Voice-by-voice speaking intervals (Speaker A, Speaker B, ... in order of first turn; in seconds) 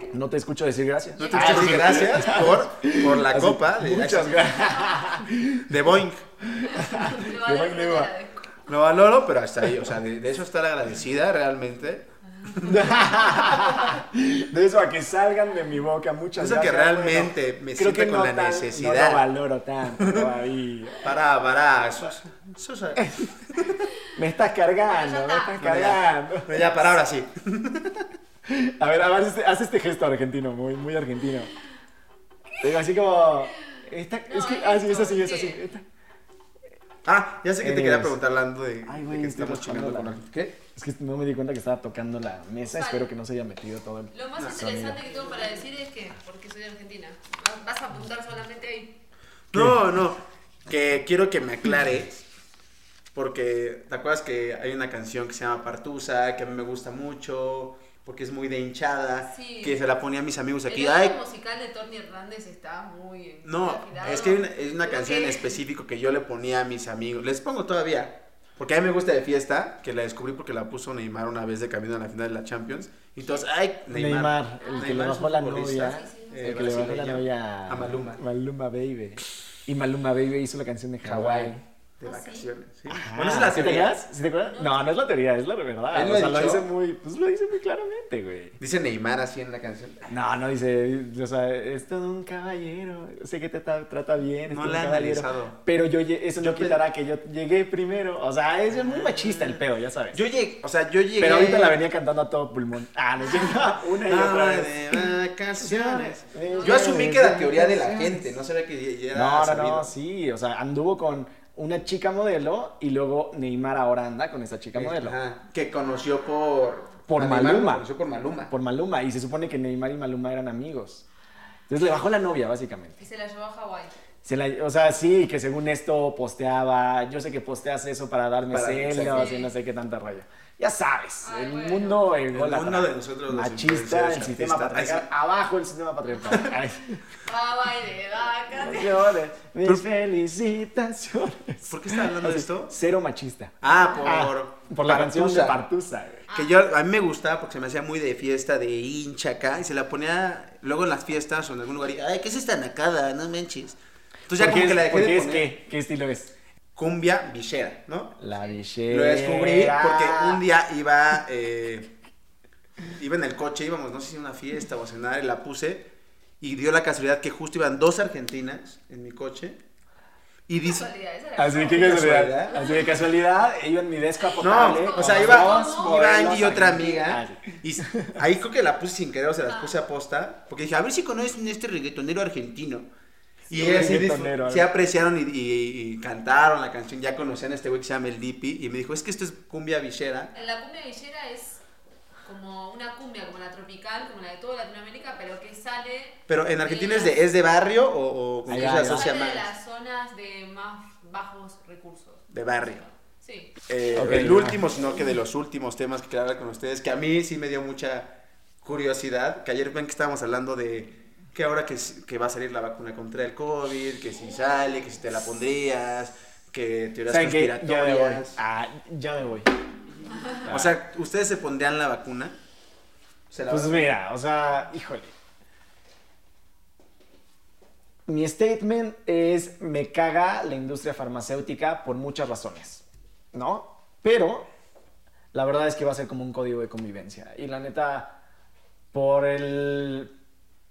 Speaker A: 0.1-5.7, 6.4-8.1, 12.6-21.1, 23.0-23.2, 24.1-26.6, 28.4-31.5, 32.6-35.8, 37.6-38.2, 38.8-40.2, 40.7-45.0, 73.9-81.6, 82.9-88.6, 90.1-100.2, 101.2-108.3, 109.1-115.2, 117.1-117.8, 118.5-121.0, 121.7-123.0, 124.2-137.0, 138.6-146.2, 154.3-156.3, 158.2-160.4, 171.4-178.1, 183.5-184.7, 198.5-199.1, 203.9-204.6, 217.1-219.5, 220.4-220.8, 223.5-225.1, 228.1-234.5, 235.3-238.2, 238.9-240.1
Speaker B: 1.2-2.4, 4.3-5.1, 6.6-8.4, 12.4-13.6, 24.8-25.6, 34.3-35.6, 42.6-43.1, 44.1-49.0, 59.2-59.8, 60.7-65.5, 74.6-75.0, 75.8-76.7, 82.0-82.5, 84.4-84.9, 106.4-107.0, 115.8-116.8, 123.0-123.9, 129.1-129.5, 131.2-132.1, 136.1-136.4, 137.2-139.1, 143.6-144.2, 146.3-146.6, 158.3-158.6, 170.6-173.1, 174.2-176.0, 179.4-179.8, 190.3-191.6, 192.2-197.2, 198.6-203.5
Speaker C: 1.2-4.5, 5.7-6.2, 8.7-12.8, 16.4-19.2, 20.0-20.3, 21.0-23.8, 25.6-28.1, 37.0-40.6, 44.4-44.7, 49.5-52.2, 53.1-61.2, 63.4-78.2, 81.0-84.0, 85.9-86.7, 88.6-90.1, 94.5-95.6, 96.4-96.8, 98.7-99.6, 100.1-101.8, 103.4-109.9, 114.7-118.5, 128.5-129.3, 132.3-135.1, 141.6-142.7, 143.6-145.6, 146.3-155.5, 156.8-158.2, 158.9-161.9, 162.9-169.6, 170.5-170.9, 171.5-172.6, 174.4-182.9, 183.5-190.3, 196.3-199.5, 202.3-202.8, 203.7-218.4, 220.4-222.4, 223.3-223.9